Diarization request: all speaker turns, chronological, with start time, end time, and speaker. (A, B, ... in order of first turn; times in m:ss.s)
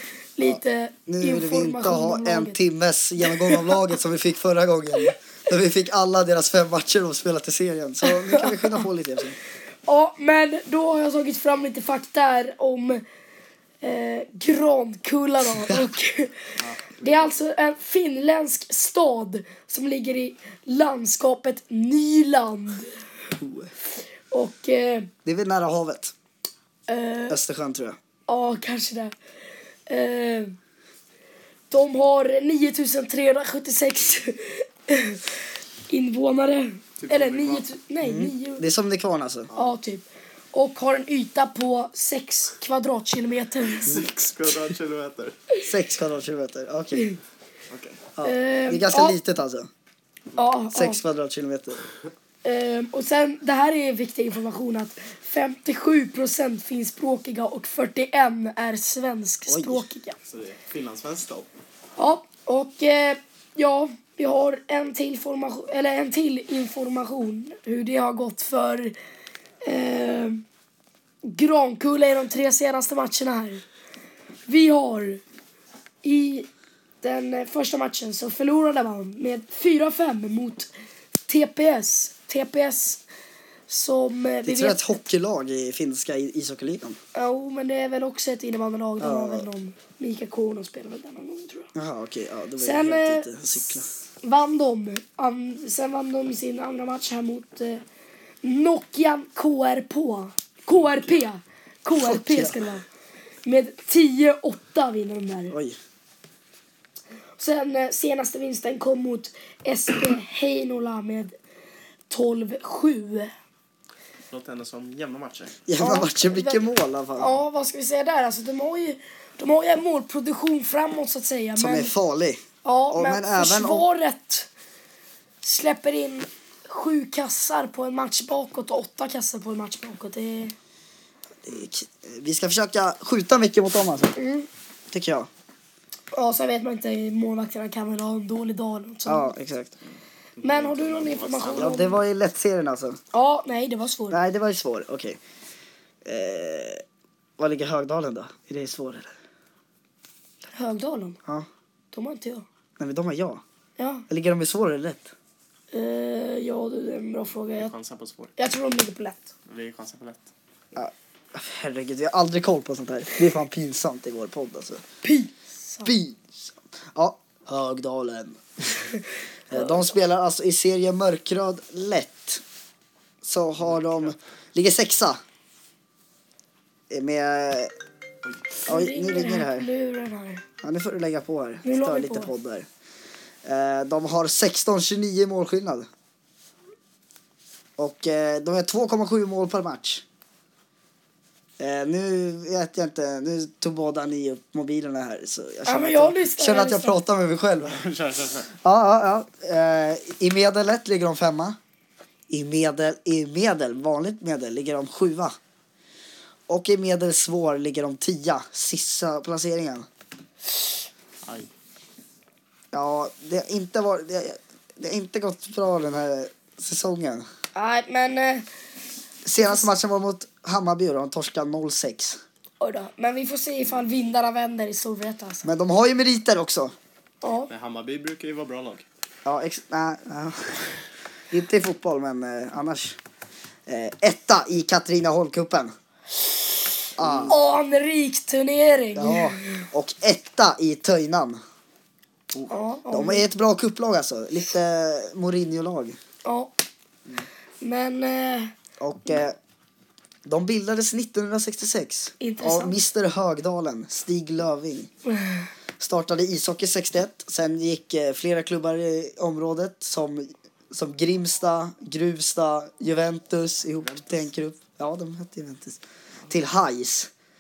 0:00.4-0:02.6 A
0:00.4-0:09.4 B
0:03.2-0:03.8 A
0:08.0-0:08.8 A
0:09.9-0:13.0 A
0:13.8-0:16.4 A
0:15.6-0:15.9 B
0:16.6-0:17.4 C
0:17.0-0:22.9 A
0:23.4-0:23.7 B
0:24.3-0:25.1 A
0:25.2-0:26.1 B
0:26.9-0:27.4 A
0:27.3-0:28.0 B
0:28.3-0:29.2 A
0:29.9-0:30.6 A
0:31.7-0:35.3 A
0:35.9-0:38.6 A
0:37.0-0:37.6 C
0:38.0-0:39.5 B
0:39.5-0:44.0 A
0:43.8-0:45.4 C
0:45.6-0:47.1 B
0:47.7-0:48.0 C
0:48.2-0:49.7 B
0:48.2-0:49.2 A
0:50.4-0:51.0 A
0:50.7-0:51.8 B
0:52.4-1:00.2 A
0:59.5-0:59.9 B
1:00.2-1:01.5 C
1:02.0-1:09.0 A
1:09.6-1:10.4 A
1:11.2-1:13.6 A
1:14.5-1:15.2 A
1:16.0-1:16.5 A
1:17.0-1:20.7 A
1:21.3-1:23.0 A
1:23.7-1:25.0 A
1:24.4-1:27.0 B
1:27.2-1:31.7 A
1:29.0-1:29.5 B
1:31.8-1:33.9 B
1:32.6-1:33.4 A
1:34.2-1:37.8 A
1:38.4-1:42.8 A
1:42.0-1:42.6 B
1:43.4-1:45.6 A
1:45.5-1:45.8 B
1:47.4-1:51.3 A
1:52.1-1:53.3 A
1:54.3-1:55.6 C
1:55.7-1:57.3 B
1:55.8-1:56.6 A
1:57.2-2:01.9 A
2:01.6-2:03.9 B
2:02.6-2:04.5 A
2:05.4-2:10.5 A
2:11.4-2:14.2 B
2:14.2-2:14.5 A
2:14.9-2:15.3 B
2:16.1-2:19.3 A
2:19.1-2:19.8 B
2:20.4-2:21.8 C
2:20.4-2:22.0 A
2:21.5-2:23.0 B
2:23.1-2:24.2 A
2:24.1-2:25.2 B
2:26.0-2:26.8 B
2:27.4-2:29.1 B
2:30.5-2:31.2 A
2:31.9-2:32.4 A
2:32.8-2:33.4 B
2:33.8-2:34.0 A
2:34.1-2:35.1 B
2:35.7-2:37.7 A
2:37.6-2:38.3 C
2:38.4-2:39.3 A
2:39.5-2:40.3 C
2:40.8-2:44.8 B
2:45.0-2:45.9 A
2:45.8-2:48.9 B
2:49.5-2:52.4 B
2:53.2-2:55.2 B
2:53.6-2:54.1 C
2:56.9-2:57.7 B
2:58.7-3:00.4 A
2:58.7-2:59.7 B
3:00.6-3:02.7 B
3:01.6-3:02.3 A
3:03.4-3:05.9 B
3:07.8-3:10.0 B
3:11.6-3:17.8 B
3:15.7-3:17.0 A
3:17.6-3:18.5 C
3:18.6-3:21.6 B
3:22.3-3:25.4 B
3:26.5-3:29.9 B
3:32.7-3:37.3 B
3:37.5-3:38.5 A
3:39.2-3:42.2 B
3:42.6-3:45.5 A
3:45.4-3:46.7 B
3:47.2-3:47.5 A
3:47.5-3:48.8 C
3:49.3-3:50.6 B
3:51.3-3:53.0 B
3:53.7-3:55.7 B
3:57.0-3:57.4 B
3:57.0-3:57.3 C
3:57.3-3:59.7 A
3:59.0-4:01.4 B
4:02.5-4:03.2 A
4:02.9-4:06.0 B
4:06.2-4:06.5 A
4:07.6-4:08.5 A
4:08.8-4:09.4 B
4:10.3-4:14.9 B
4:12.2-4:12.8 A
4:15.8-4:27.1 B
4:23.8-4:24.2 C